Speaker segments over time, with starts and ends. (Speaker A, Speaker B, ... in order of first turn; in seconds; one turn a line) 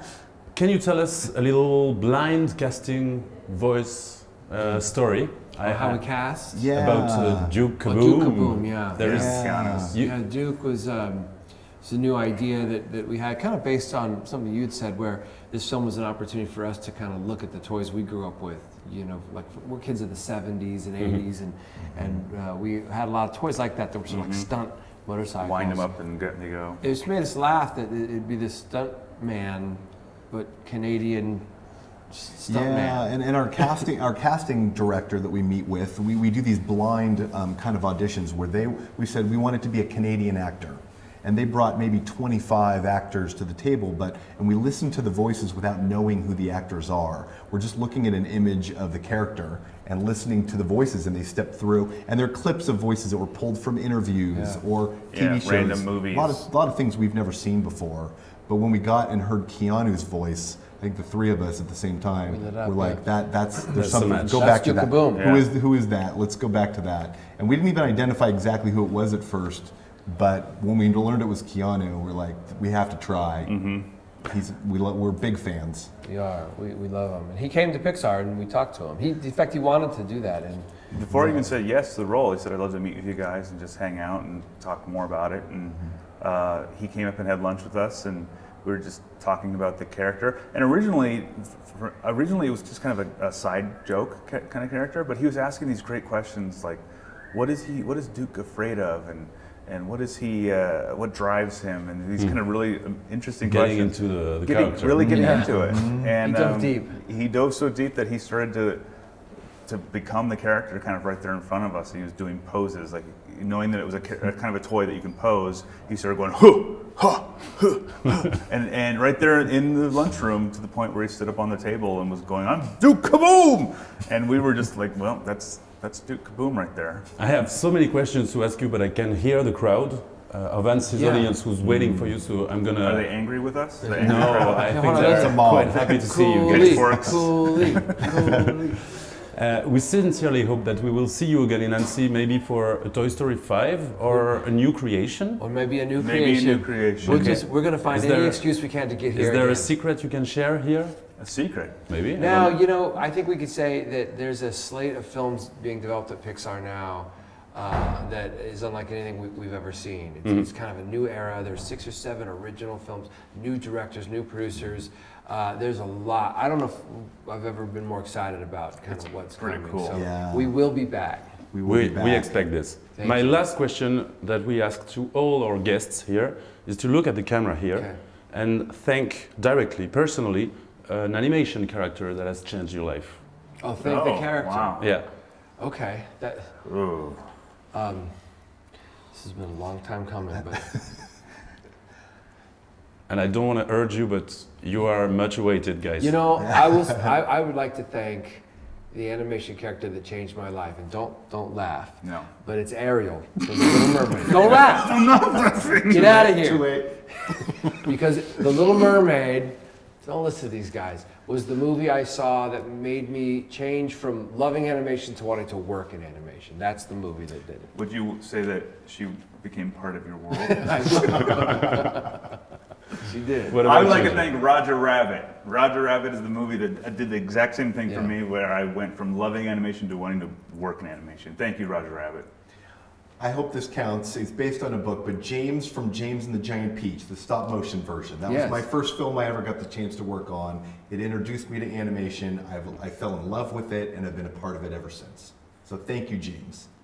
Speaker A: 0.5-6.2
Speaker B: 5.6-6.7
Speaker C: 6.5-7.6
Speaker A: 6.7-10.2
Speaker B: 7.8-25.9
Speaker D: 9.0-9.9
Speaker C: 9.0-9.9
Speaker C: 21.8-22.2
Speaker D: 24.1-24.5
Speaker D: 25.4-26.8
Speaker B: 26.8-31.5
Speaker B: 32.1-33.2
Speaker C: 32.5-73.6
Speaker B: 54.3-54.6
Speaker D: 55.1-56.4
Speaker B: 62.3-63.1
Speaker A: 63.7-64.6
Speaker B: 64.3-65.3
Speaker D: 65.2-65.5
Speaker D: 73.5-73.9
Speaker C: 74.2-75.9
Speaker B: 76.0-81.5
Speaker D: 80.9-108.8
Speaker A: 102.2-102.5
Speaker A: 103.4-105.5
Speaker C: 105.0-106.2
Speaker B: 105.0-107.0
Speaker D: 109.7-127.1
Speaker A: 127.2-133.3
Speaker B: 130.9-131.3
Speaker C: 131.6-132.2
Speaker D: 132.8-135.1
Speaker B: 133.8-138.8
Speaker A: 133.9-137.2
Speaker C: 134.9-135.8
Speaker D: 136.4-137.8
Speaker A: 139.3-145.4
Speaker B: 145.4-149.8
Speaker D: 145.9-147.5
Speaker A: 147.0-151.1
Speaker D: 151.2-151.8
Speaker A: 151.9-152.5
Speaker B: 152.1-171.4
Speaker D: 169.4-170.0
Speaker C: 169.9-170.6
Speaker C: 171.5-172.5
Speaker A: 171.7-183.2
Speaker B: 173.0-173.4
Speaker B: 177.7-178.0
Speaker B: 183.6-184.9
Speaker D: 183.8-184.8
Speaker A: 184.8-185.1
Speaker B: 185.6-186.6
Speaker D: 186.6-187.3
Speaker B: 187.7-188.5
Speaker B: 189.1-191.1
Speaker A: 193.1-196.2
Speaker B: 196.0-205.2
Speaker D: 202.0-202.3
Speaker D: 204.7-206.3
Speaker B: 205.9-217.7
Speaker C: 205.9-207.8
Speaker D: 217.7-221.9
Speaker B: 220.3-222.1
Speaker B: 223.0-224.2
Speaker A: 223.5-224.4
Speaker D: 223.6-232.3
Speaker B: 227.9-228.1
Speaker C: 233.2-246.7
Speaker B: 238.3-238.7